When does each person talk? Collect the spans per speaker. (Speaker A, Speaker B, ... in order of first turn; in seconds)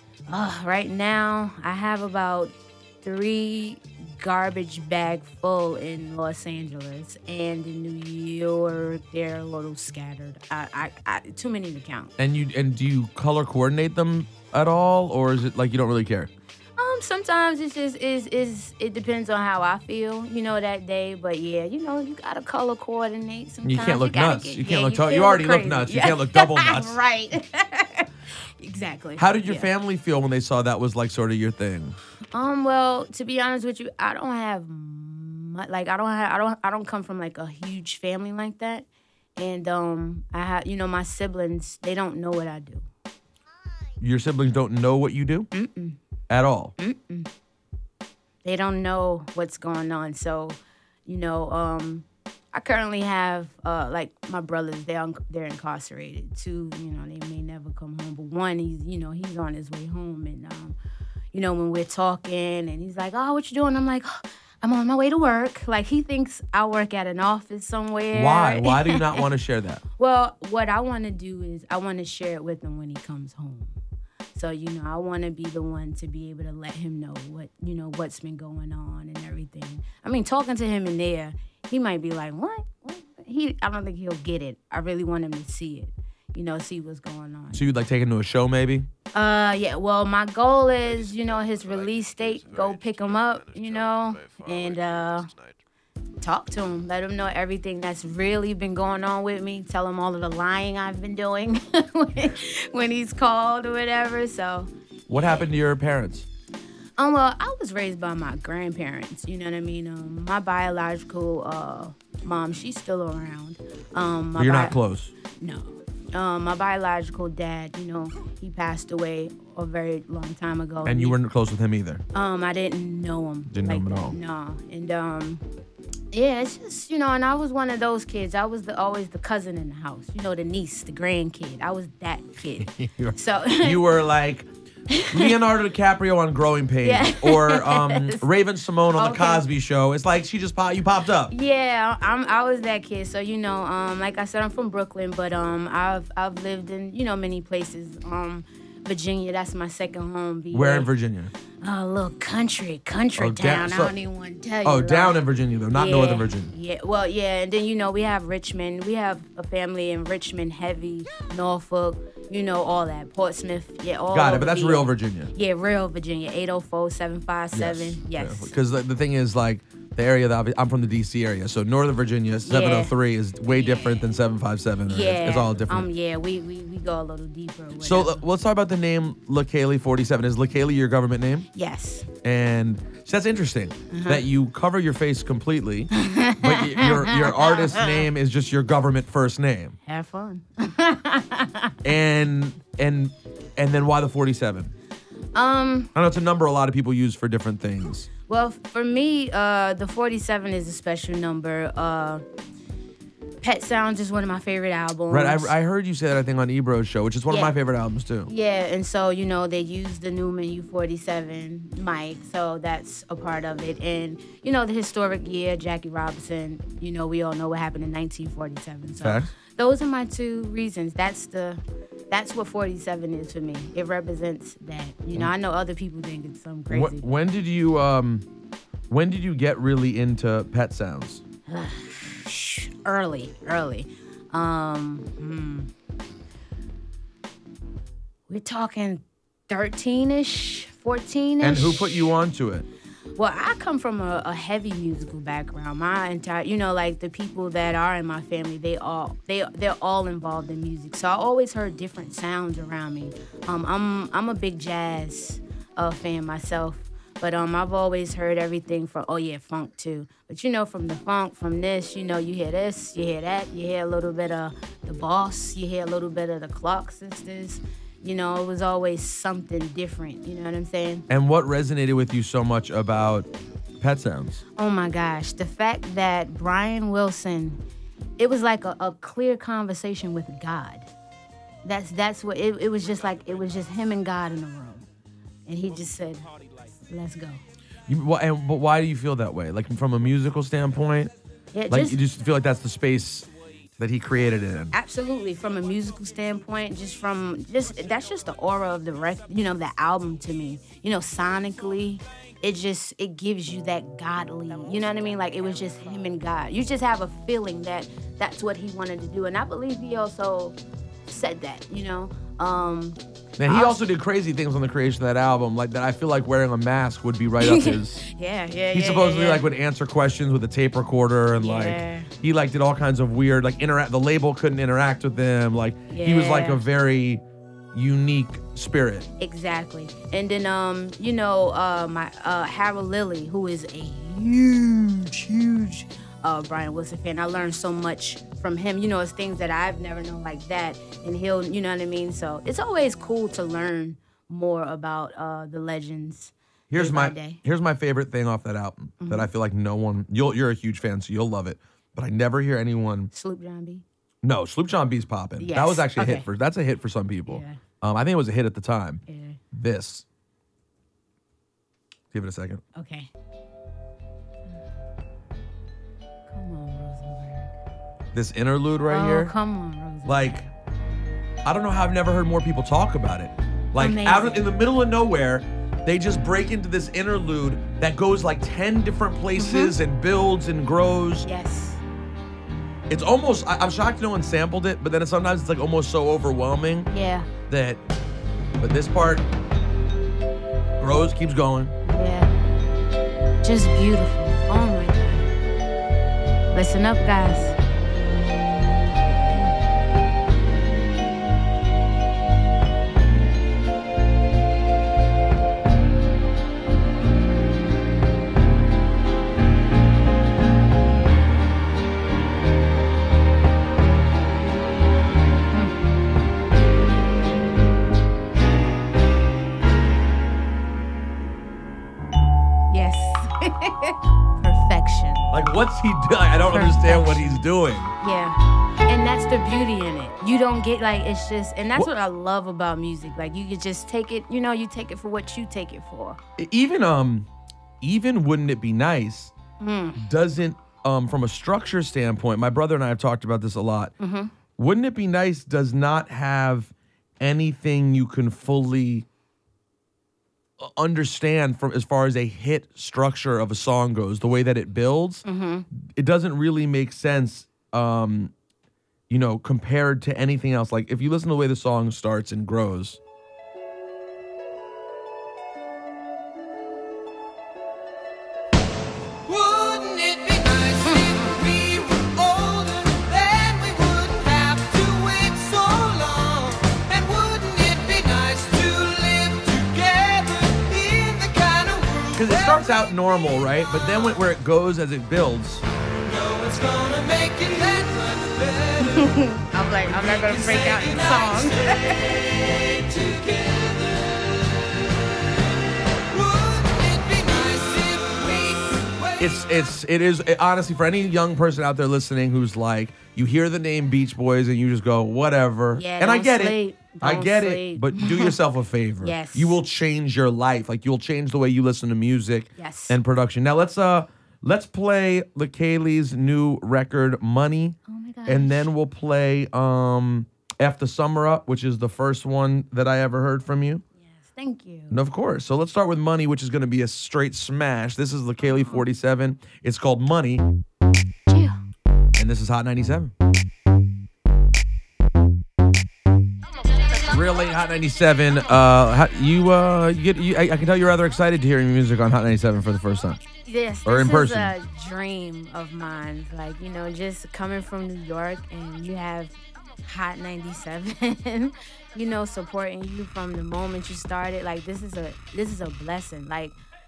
Speaker A: 0.3-12.1, 16.8-29.7, 32.3-42.9, 45.5-46.0, 46.8-47.3, 48.4-60.8, 61.3-69.2, 70.0-73.8, 74.3-87.6, 89.1-95.3, 96.2-105.5, 107.0-114.8, 115.4-121.2, 122.1-125.4, 126.1-133.8, 134.9-135.3, 136.8-138.2, 139.0-139.4, 141.3-150.9, 151.6-155.2, 155.7-168.5, 172.4-172.9, 173.5-174.1, 174.8-178.2, 181.5-182.1, 183.9-184.2, 185.9-188.1, 189.8-191.8, 195.3-195.9, 198.3-202.2, 203.4-205.5, 207.3-207.5, 208.3-227.1, 231.5-235.7, 238.3-242.1, 243.2-271.0, 274.6-277.6, 278.2-280.9, 281.6-284.9, 285.5-286.3, 286.9-287.4, 291.5-292.0, 294.7-313.8, 317.4-319.5, 321.4-322.1, 325.9-326.6, 329.2-347.4, 349.0-349.3, 353.1-353.8, 355.4-356.3, 357.3-357.6, 359.1-359.4, 362.7-363.1, 366.3-367.5, 368.9-370.5, 373.8-374.5, 379.4-379.7, 381.2-381.8, 386.9-387.3, 391.9-392.3, 393.4-395.3, 396.5-397.6, 399.1-399.4, 422.7-425.3, 426.5-427.4, 428.0-436.2, 439.6-440.0, 444.0-444.3, 455.2-455.7, 470.8-471.3, 488.8-492.1, 505.7-508.4, 509.0-509.6, 512.6-513.0, 517.9-518.7, 524.1-525.0, 528.4-528.8, 531.3-531.6, 543.4-556.5
Speaker B: 12.2-16.3, 23.6-26.9, 29.2-32.0, 44.0-45.5, 46.3-46.7, 68.1-69.8, 87.5-88.9, 105.1-106.3, 114.3-115.1, 120.8-122.0, 123.5-124.2, 132.7-134.5, 135.1-141.3, 150.5-151.3, 153.2-153.9, 154.6-156.5, 164.1-165.3, 167.5-175.9, 177.8-181.5, 182.2-189.8, 191.8-194.7, 195.9-198.1, 205.1-208.3, 219.0-219.3, 226.7-228.2, 228.9-231.2, 241.4-242.7, 271.1-273.3, 273.8-274.4, 287.9-291.1, 291.7-293.3, 293.8-294.7, 313.4-318.0, 318.7-327.2, 327.7-329.1, 346.7-353.1, 354.2-360.0, 362.1-362.6, 368.1-369.3, 370.0-370.4, 371.4-381.3, 382.9-386.9, 387.5-387.8, 388.6-389.2, 390.8-391.7, 425.3-427.9, 436.4-437.3, 437.8-439.3, 440.0-443.9, 444.6-449.1, 450.6-458.3, 459.1-463.0, 482.1-485.6, 499.2-523.8, 524.9-530.4, 532.2-533.1, 537.1-543.2, 543.9-544.5
Speaker C: 469.3-482.7, 486.0-494.5, 496.1-499.4